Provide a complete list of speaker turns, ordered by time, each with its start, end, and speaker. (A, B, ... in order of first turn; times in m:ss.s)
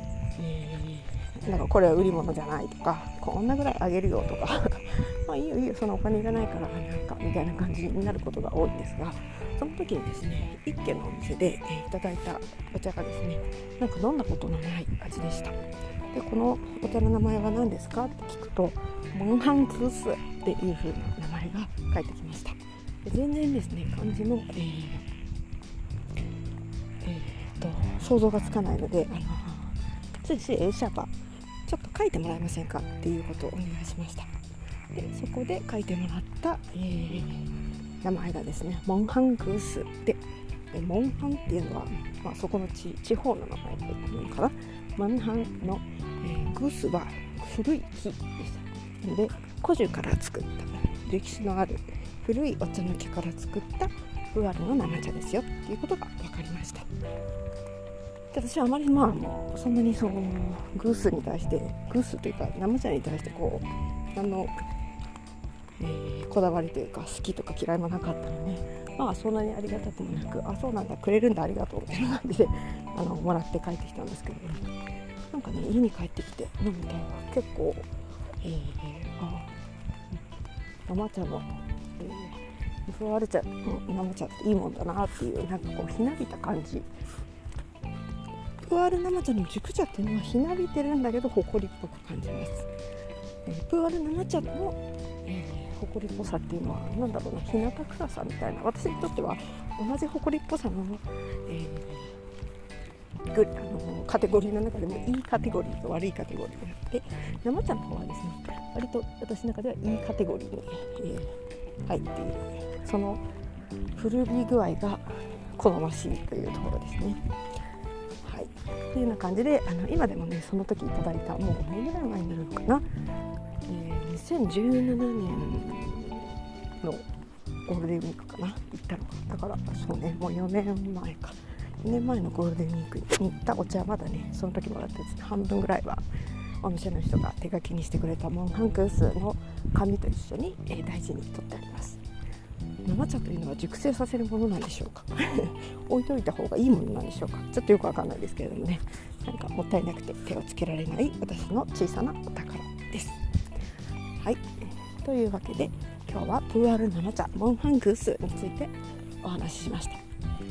0:00.4-0:15.6 A
0:16.1-0:25.1 A
0:27.0-0:31.1 A
0:31.6-0:34.3 A
0:34.9-0:37.5 A
0:38.0-0:40.2 A
0:40.7-0:56.9 A
0:58.3-1:04.5 A
1:05.8-1:14.7 A
1:15.3-1:19.5 A
1:20.9-1:26.9 A
1:28.6-1:32.7 A
1:33.4-1:42.2 A
1:43.3-1:53.2 A
1:53.9-1:57.2 A
1:58.2-2:02.8 A
2:03.6-2:07.0 A
2:07.6-2:16.0 A
2:16.6-2:22.0 A
2:22.8-2:33.2 A
2:34.2-2:40.0 A